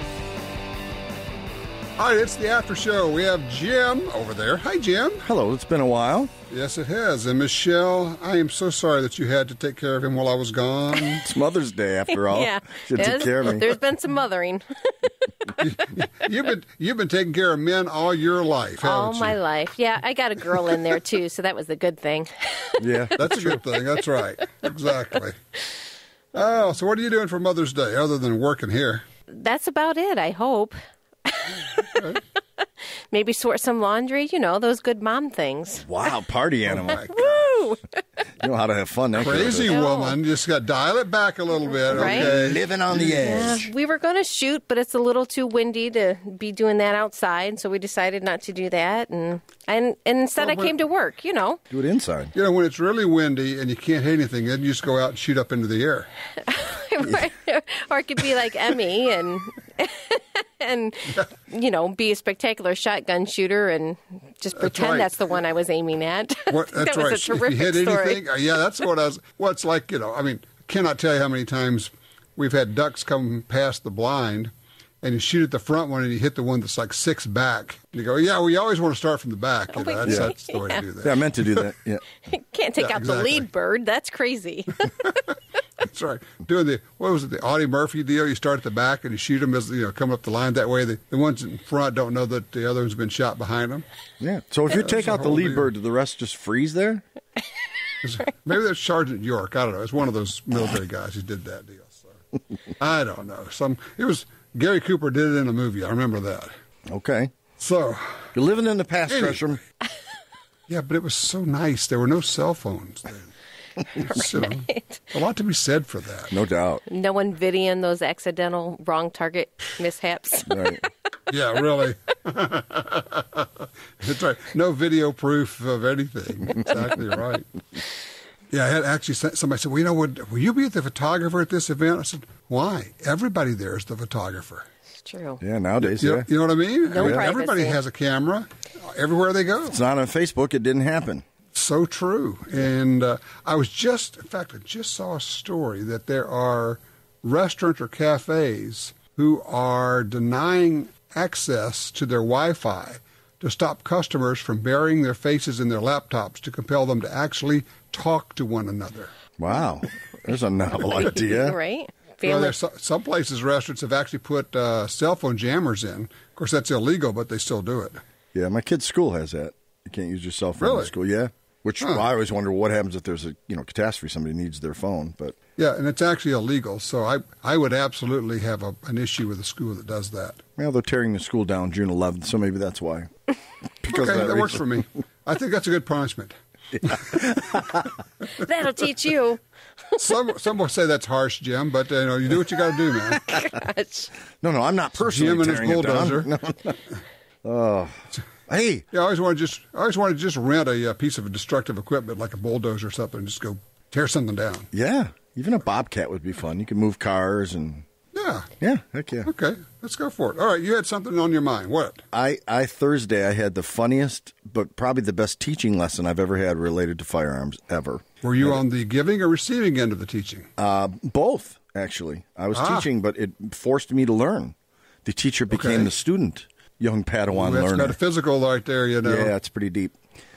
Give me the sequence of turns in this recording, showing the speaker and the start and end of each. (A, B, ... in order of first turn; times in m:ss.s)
0:02.0-0:05.2 A
0:05.2-0:06.3 B
0:06.5-0:11.3 A
0:11.2-0:13.7 B
0:12.1-0:15.1 C
0:15.6-0:19.4 A
0:18.8-0:23.0 C
0:22.8-0:23.6 B
0:23.2-0:25.4 A
0:26.3-0:29.0 A
0:29.3-0:32.2 C
0:31.7-0:32.2 A
0:33.1-0:35.9 C
0:35.8-0:37.2 B
0:36.7-0:37.3 A
0:37.0-0:38.0 C
0:38.4-0:39.8 B
0:39.1-0:43.2 A
0:39.7-0:40.2 C
0:41.8-0:42.3 C
0:41.9-0:43.7 B
0:43.0-0:51.6 C
0:50.4-0:50.7 A
0:51.7-0:52.3 B
0:52.3-0:56.1 A
0:56.4-1:08.2 C
1:04.6-1:05.1 A
1:06.5-1:14.5 A
1:15.0-1:21.3 A
1:19.7-1:20.8 C
1:20.0-1:20.3 B
1:21.0-1:22.0 B
1:22.2-1:24.9 C
1:22.8-1:23.5 A
1:25.0-1:25.3 A
1:25.8-1:33.8 A
1:34.2-1:37.0 B
1:34.7-1:35.7 A
1:38.0-1:42.1 A
1:42.8-1:46.5 A
1:46.9-1:47.3 B
1:47.6-1:48.3 A
1:48.4-1:49.6 B
1:49.1-1:49.5 A
1:50.7-1:53.3 A
1:53.9-1:56.4 A
1:54.2-1:54.8 C
1:56.3-1:56.8 B
1:56.9-2:00.8 C
2:00.5-2:00.8 B
2:01.3-2:07.5 A
2:08.5-2:14.7 A
2:15.0-2:15.4 C
2:15.4-2:16.3 B
2:15.8-2:19.8 A
2:16.9-2:17.8 C
2:17.0-2:17.3 B
2:19.7-2:21.2 B
2:21.6-2:39.1 A
2:39.4-2:41.6 B
2:41.1-2:42.6 C
2:42.2-2:48.0 A
2:48.3-2:55.4 B
2:50.6-2:50.9 A
2:55.6-3:00.4 A
3:00.6-3:03.1 B
3:03.8-3:04.6 B
3:03.9-3:06.3 A
3:06.8-3:07.2 A
3:07.1-3:07.7 B
3:08.4-3:09.4 C
3:10.0-3:13.3 A
3:13.2-3:14.1 C
3:14.4-3:16.8 B
3:15.0-3:16.3 A
3:17.4-3:17.9 B
3:18.5-3:18.9 B
3:18.9-3:24.7 A
3:24.7-3:27.9 B
3:28.2-3:28.5 A
3:28.6-3:29.3 B
3:29.2-3:32.0 A
3:32.1-3:38.6 B
3:38.2-3:40.5 A
3:40.6-3:48.0 B
3:42.5-3:42.9 A
3:45.5-3:45.9 A
3:47.3-3:49.3 A
3:49.0-3:50.0 B